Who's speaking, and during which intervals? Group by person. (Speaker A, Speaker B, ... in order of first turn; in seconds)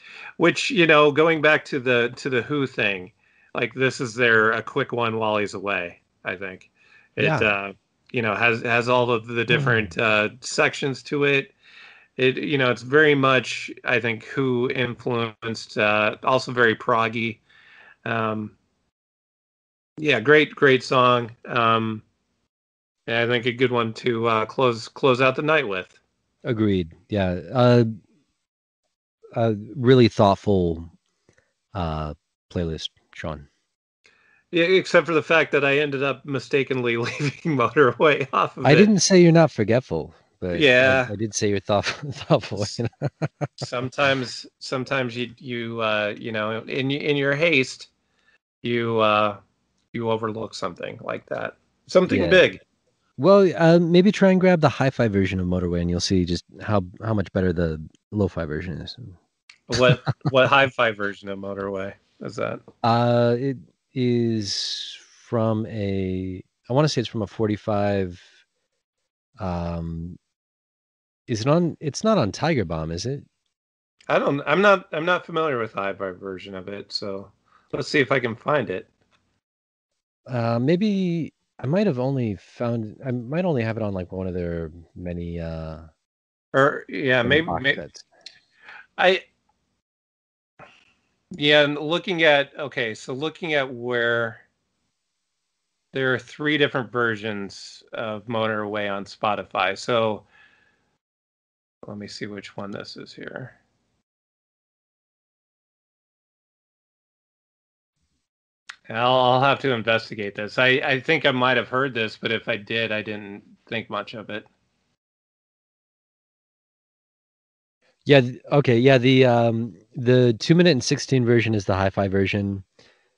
Speaker A: 0.4-11.5, 12.2-17.4, 18.1-18.6, 20.0-22.0, 23.1-26.0, 34.5-38.9, 40.5-41.1, 43.6-47.9, 48.6-49.4, 49.9-52.6, 59.7-62.6, 74.1-78.9, 86.5-87.8, 89.0-89.2, 91.3-94.4, 95.9-100.3, 101.8-103.6, 108.9-114.5
Speaker B: 7.2-7.5, 9.5-9.9, 26.4-27.9, 29.4-30.9, 31.7-33.5, 38.6-43.6, 52.1-52.4, 53.2-59.1, 62.8-68.3, 69.4-70.2, 71.3-73.3, 80.3-85.9, 87.2-88.0, 118.1-122.7